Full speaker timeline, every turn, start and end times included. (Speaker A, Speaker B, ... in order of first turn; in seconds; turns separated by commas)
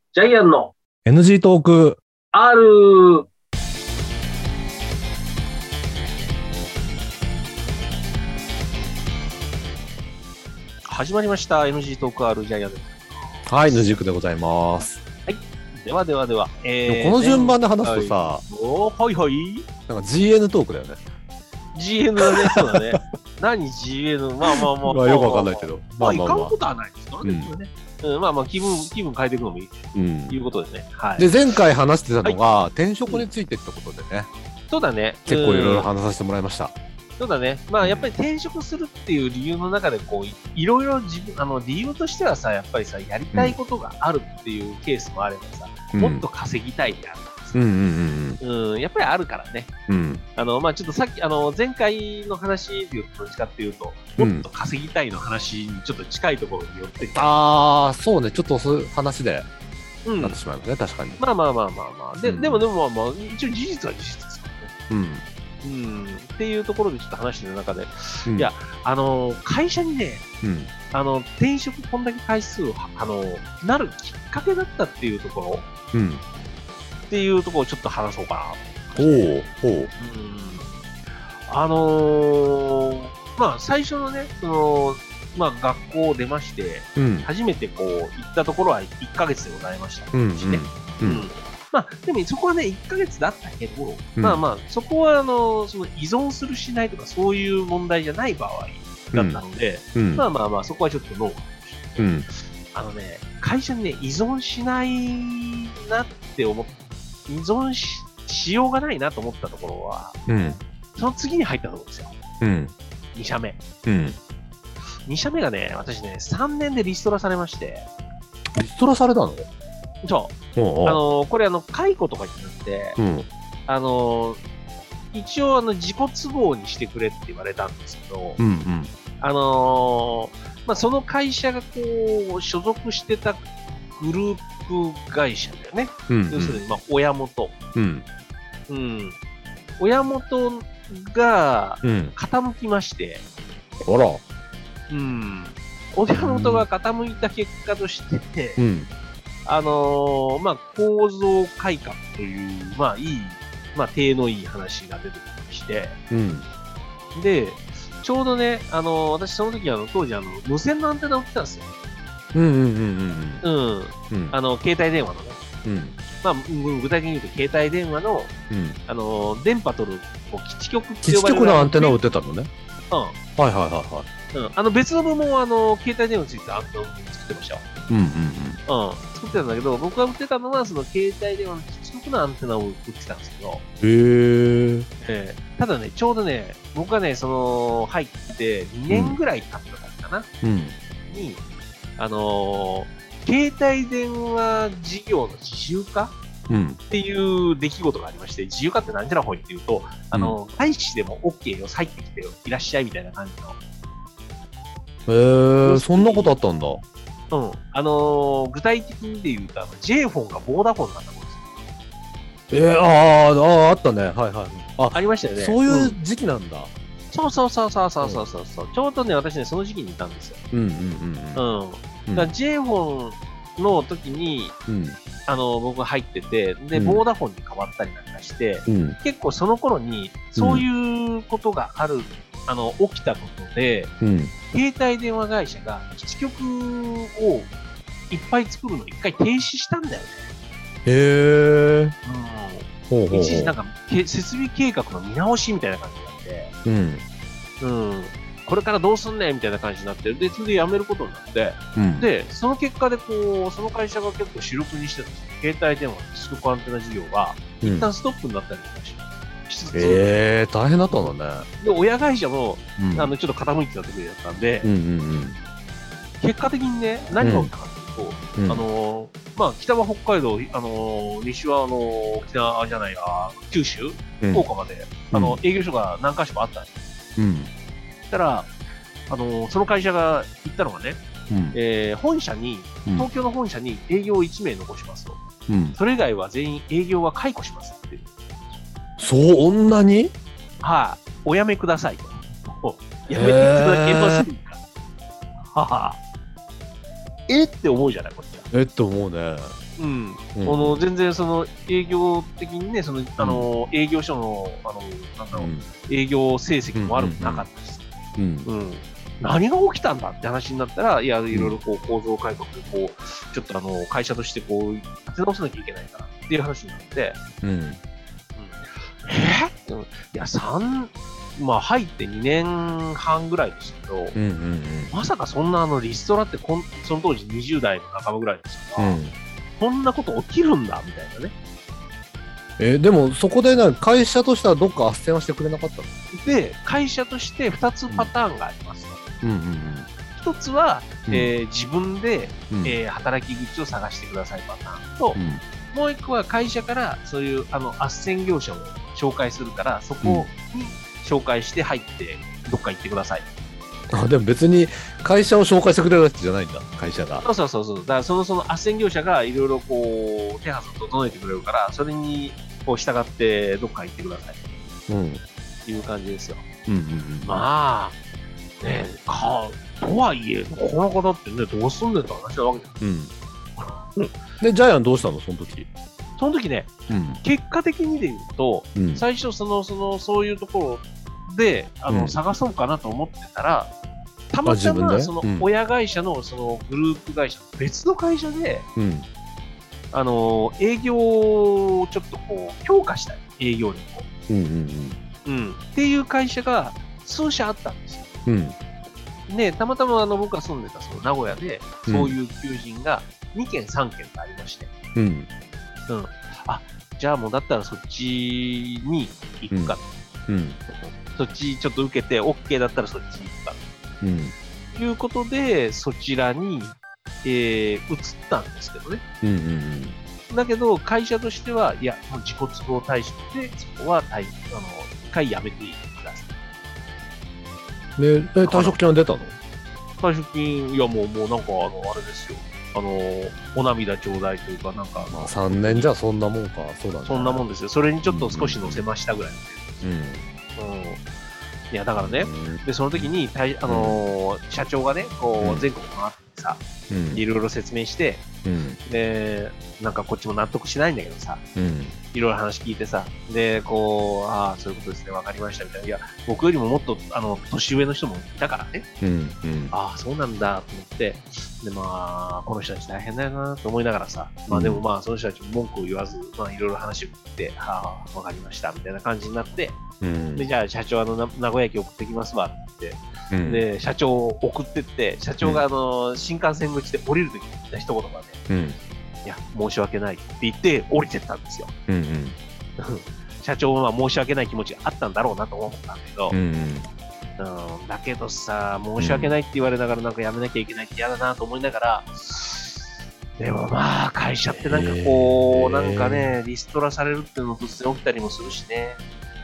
Speaker A: 0.1-0.8, Speaker B: 1.0-2.0, Speaker A: 2.3-3.3, Speaker A: 10.8-13.8, Speaker B: 13.5-15.0, Speaker A: 15.3-19.7, Speaker B: 16.9-18.4, Speaker B: 19.9-21.0, Speaker A: 21.8-29.8, Speaker B: 22.3-23.0, Speaker B: 24.5-26.6, Speaker B: 27.2-27.5, Speaker B: 29.9-30.4, Speaker A: 30.3-31.3, Speaker B: 31.2-34.3, Speaker A: 34.7-35.9, Speaker B: 35.3-36.8, Speaker A: 37.2-47.7, Speaker B: 37.8-38.1, Speaker B: 45.9-46.3, Speaker B: 47.5-48.4, Speaker A: 48.4-49.7, Speaker B: 49.9-50.2, Speaker A: 50.4-57.4, Speaker B: 54.2-54.5, Speaker B: 57.1-59.5, Speaker A: 60.1-60.4, Speaker B: 60.2-61.2, Speaker A: 61.2-64.7, Speaker B: 62.2-62.7, Speaker B: 64.9-65.2, Speaker A: 65.6-70.2, Speaker B: 68.3-68.5, Speaker B: 70.4-70.7, Speaker A: 70.9-75.7, Speaker B: 75.9-76.2, Speaker A: 77.1-79.4, Speaker B: 79.0-79.9, Speaker A: 80.0-80.7, Speaker A: 81.5-106.7, Speaker B: 87.0-87.3, Speaker B: 90.1-91.3, Speaker B: 94.2-94.4, Speaker B: 99.1-99.4, Speaker B: 100.0-100.3, Speaker B: 102.0-102.3, Speaker A: 107.3-110.2, Speaker B: 110.3-110.6, Speaker A: 111.0-112.1, Speaker B: 112.4-112.7, Speaker A: 113.1-113.6, Speaker B: 113.9-114.2, Speaker A: 115.1-117.9, Speaker B: 118.6-119.5, Speaker A: 120.0-123.0, Speaker B: 120.6-121.0, Speaker B: 123.0-123.3, Speaker A: 123.7-124.4, Speaker A: 125.1-128.4, Speaker B: 128.4-128.9, Speaker A: 129.2-137.6, Speaker B: 136.1-136.6, Speaker B: 137.8-138.1, Speaker A: 138.7-139.2, Speaker A: 139.8-143.2, Speaker B: 141.8-142.1, Speaker B: 143.8-144.2, Speaker A: 144.9-148.6, Speaker B: 146.2-146.7, Speaker B: 148.6-148.9, Speaker A: 149.4-156.0, Speaker B: 156.1-156.5, Speaker A: 157.2-161.7, Speaker B: 162.3-163.4, Speaker A: 163.4-165.4, Speaker B: 164.1-164.4, Speaker B: 165.6-166.0, Speaker A: 166.2-168.3, Speaker B: 168.5-168.8, Speaker A: 168.9-172.0, Speaker B: 171.1-172.5, Speaker A: 172.9-173.2, Speaker B: 173.4-174.1, Speaker A: 174.3-177.7, Speaker B: 177.9-178.6, Speaker A: 178.7-183.6, Speaker B: 183.8-184.9, Speaker A: 185.0-190.3, Speaker B: 188.9-189.2, Speaker B: 190.4-190.8, Speaker A: 191.1-191.4, Speaker A: 192.0-196.2, Speaker B: 196.5-196.8, Speaker A: 196.9-203.6, Speaker B: 200.1-200.4, Speaker B: 205.1-206.8, Speaker A: 205.6-206.3, Speaker A: 207.3-211.4, Speaker B: 212.5-216.7, Speaker A: 214.9-216.0, Speaker A: 217.1-220.4, Speaker B: 218.0-218.3, Speaker B: 220.5-221.4, Speaker A: 221.3-224.6, Speaker B: 224.7-225.0, Speaker A: 225.3-233.9, Speaker B: 226.8-227.0, Speaker B: 228.7-229.0, Speaker B: 230.4-230.7, Speaker B: 234.0-234.3, Speaker A: 234.5-237.5, Speaker A: 238.1-240.3, Speaker B: 240.9-241.9, Speaker A: 242.1-246.5, Speaker B: 242.9-243.6, Speaker B: 246.7-247.0, Speaker A: 247.6-260.1, Speaker B: 251.8-252.1, Speaker B: 257.6-257.9, Speaker B: 259.7-261.5, Speaker A: 261.6-264.7, Speaker B: 262.8-263.1, Speaker B: 264.6-265.4, Speaker A: 266.2-276.7, Speaker B: 267.2-267.5, Speaker B: 268.4-268.6, Speaker B: 274.2-274.5, Speaker B: 275.1-275.4, Speaker B: 277.2-277.5, Speaker A: 278.1-278.5, Speaker A: 279.1-281.0, Speaker B: 281.3-281.6, Speaker A: 281.5-285.2, Speaker B: 285.5-285.8, Speaker A: 285.8-288.6, Speaker B: 289.0-290.1, Speaker A: 290.6-294.6, Speaker B: 293.1-294.3, Speaker A: 295.5-296.0, Speaker A: 297.3-298.5, Speaker B: 298.5-299.6, Speaker A: 299.8-307.8, Speaker B: 300.4-300.9, Speaker B: 303.2-303.5, Speaker B: 305.3-305.7, Speaker B: 306.8-307.5, Speaker B: 308.2-308.5, Speaker A: 308.5-317.2, Speaker B: 311.3-311.6, Speaker B: 317.4-317.8, Speaker A: 318.4-324.2, Speaker B: 324.1-324.9, Speaker A: 324.9-329.0, Speaker B: 328.8-329.1, Speaker A: 329.6-331.3, Speaker B: 332.6-335.9, Speaker A: 336.1-339.0, Speaker B: 339.2-339.9, Speaker A: 340.1-345.2, Speaker B: 342.5-342.8, Speaker B: 345.1-345.4, Speaker A: 345.7-353.3, Speaker B: 350.0-350.3, Speaker B: 353.9-357.3, Speaker A: 357.2-364.4, Speaker B: 364.9-365.2, Speaker A: 365.7-366.4, Speaker B: 366.7-367.4, Speaker A: 367.2-368.0, Speaker A: 368.6-372.8, Speaker B: 372.8-373.1, Speaker A: 373.6-374.2, Speaker B: 374.4-375.7, Speaker A: 376.2-383.7, Speaker B: 376.9-377.2, Speaker B: 378.8-379.1, Speaker B: 381.9-382.2, Speaker A: 384.3-388.7, Speaker B: 384.4-385.5, Speaker B: 388.8-389.1, Speaker A: 389.9-394.1, Speaker B: 394.3-395.0, Speaker A: 395.2-398.1, Speaker B: 398.3-398.6, Speaker A: 399.3-404.7, Speaker B: 401.9-402.1, Speaker B: 404.9-405.3, Speaker A: 405.9-409.9, Speaker B: 409.5-409.8, Speaker B: 410.3-410.6, Speaker A: 411.1-413.6, Speaker B: 414.0-414.3, Speaker A: 414.7-419.0, Speaker B: 419.2-420.0, Speaker A: 420.3-426.3, Speaker B: 428.0-429.4, Speaker A: 428.4-428.8, Speaker A: 430.0-435.9, Speaker B: 435.1-437.4, Speaker A: 437.1-439.8, Speaker B: 438.1-438.9, Speaker B: 439.8-440.3, Speaker A: 440.6-441.0, Speaker A: 441.7-448.2, Speaker B: 442.0-443.1, Speaker B: 443.7-444.0, Speaker B: 445.4-445.7, Speaker B: 446.9-447.2, Speaker B: 448.4-448.8, Speaker A: 448.9-451.4, Speaker B: 451.6-452.0, Speaker A: 452.1-458.9, Speaker B: 459.0-459.7, Speaker A: 459.7-469.8, Speaker B: 464.5-464.8, Speaker B: 470.0-470.5, Speaker A: 470.4-478.4, Speaker B: 473.3-473.7, Speaker B: 478.5-478.8, Speaker A: 479.2-481.7, Speaker B: 481.9-482.4, Speaker A: 482.8-486.4, Speaker B: 486.3-486.9, Speaker A: 487.4-499.0, Speaker B: 489.0-489.4, Speaker B: 494.6-496.4